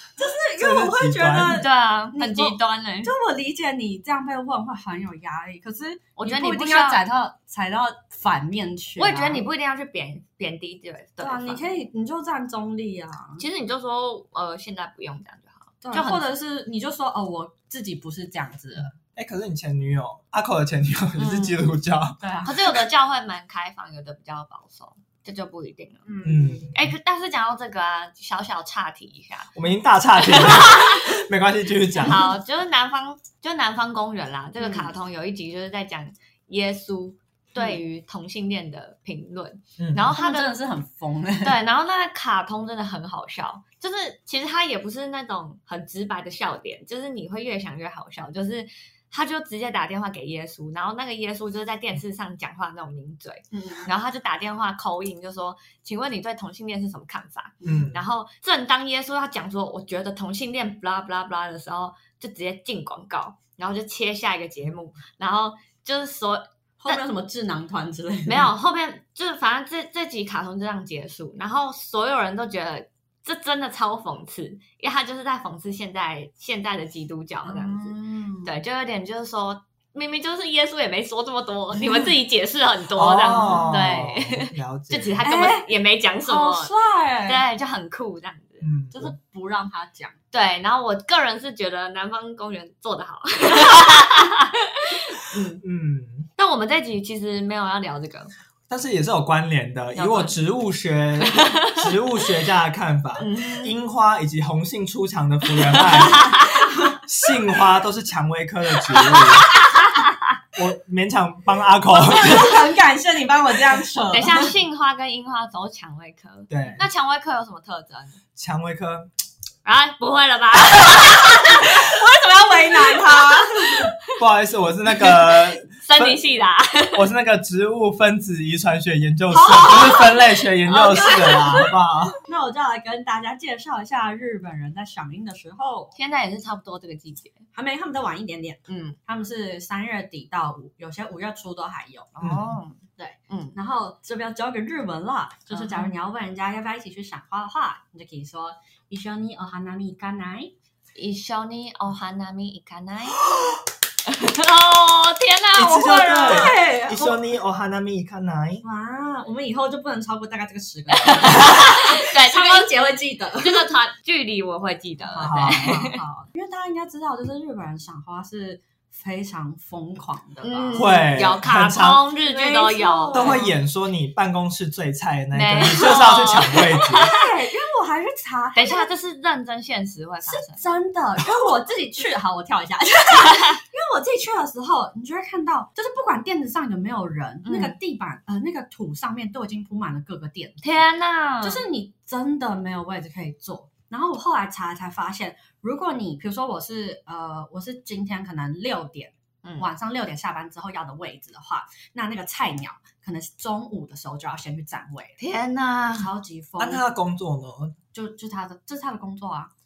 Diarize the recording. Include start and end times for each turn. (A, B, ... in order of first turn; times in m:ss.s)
0:00.2-0:09.4 A
0:00.6-0:01.6 B
0:01.6-0:03.1 C
0:06.2-0:07.0 C
0:09.0-0:11.6 C
0:11.2-0:13.4 A
0:13.4-0:16.2 C
0:15.8-0:18.9 A
0:19.1-0:22.2 B
0:21.2-0:21.6 C
0:22.2-0:22.7 A
0:22.4-0:26.0 C
0:26.0-0:26.7 A
0:26.2-0:26.9 B
0:26.7-0:29.5 C
0:29.5-0:32.2 B
0:30.2-0:31.1 C
0:32.0-0:40.6 C
0:34.6-0:34.9 A
0:37.6-0:37.8 A
0:39.8-0:40.1 B
0:40.1-0:41.6 A
0:41.4-1:07.0 C
0:53.5-0:53.9 A
0:57.6-0:57.9 A
0:57.6-0:58.0 B
1:06.8-1:08.5 A
1:08.2-1:26.7 C
1:17.4-1:18.5 A
1:21.8-1:22.1 A
1:22.9-1:25.2 B
1:23.3-1:23.7 A
1:25.2-1:25.7 A
1:26.2-1:27.4 A
1:27.2-1:28.7 C
1:28.6-1:29.1 B
1:28.9-1:30.2 A
1:30.3-1:35.6 C
1:35.6-1:36.3 B
1:36.4-1:38.3 C
1:38.7-1:46.4 B
1:39.9-1:40.3 C
1:41.2-1:41.9 C
1:43.2-1:43.8 C
1:45.7-1:46.7 C
1:47.0-1:49.5 B
1:48.9-1:50.1 C
1:50.5-1:52.6 B
1:51.9-1:54.5 A
1:54.1-1:58.2 C
1:56.5-1:56.8 B
1:58.4-1:59.1 B
1:59.6-2:01.5 C
2:01.0-2:03.9 A
2:04.1-2:06.2 B
2:05.1-2:07.0 C
2:06.9-2:12.2 B
2:09.3-2:11.7 A
2:10.7-2:11.6 C
2:12.2-2:15.9 A
2:15.9-2:17.4 C
2:17.5-2:22.1 A
2:18.7-2:19.0 C
2:22.2-2:23.6 C
2:22.2-2:22.6 B
2:23.0-2:30.5 A
2:25.5-2:25.9 C
2:30.9-2:33.2 C
2:34.0-2:36.6 C
2:35.5-2:38.6 B
2:36.2-2:37.2 A
2:38.6-2:43.7 A
2:40.9-2:42.8 C
2:43.4-2:46.0 C
2:45.1-2:51.1 A
2:45.2-2:45.7 B
2:50.4-2:53.5 C
2:50.7-2:52.0 B
2:52.2-2:53.5 A
2:53.1-2:57.1 B
2:55.3-2:57.2 C
2:56.9-2:58.9 A
2:58.5-3:00.6 C
3:00.2-3:10.8 A
3:03.3-3:03.6 C
3:07.4-3:07.8 C
3:10.6-3:11.6 C
3:11.4-3:25.2 A
3:25.2-3:26.1 C
3:26.0-3:26.8 A
3:26.6-3:27.8 B
3:27.9-3:29.5 A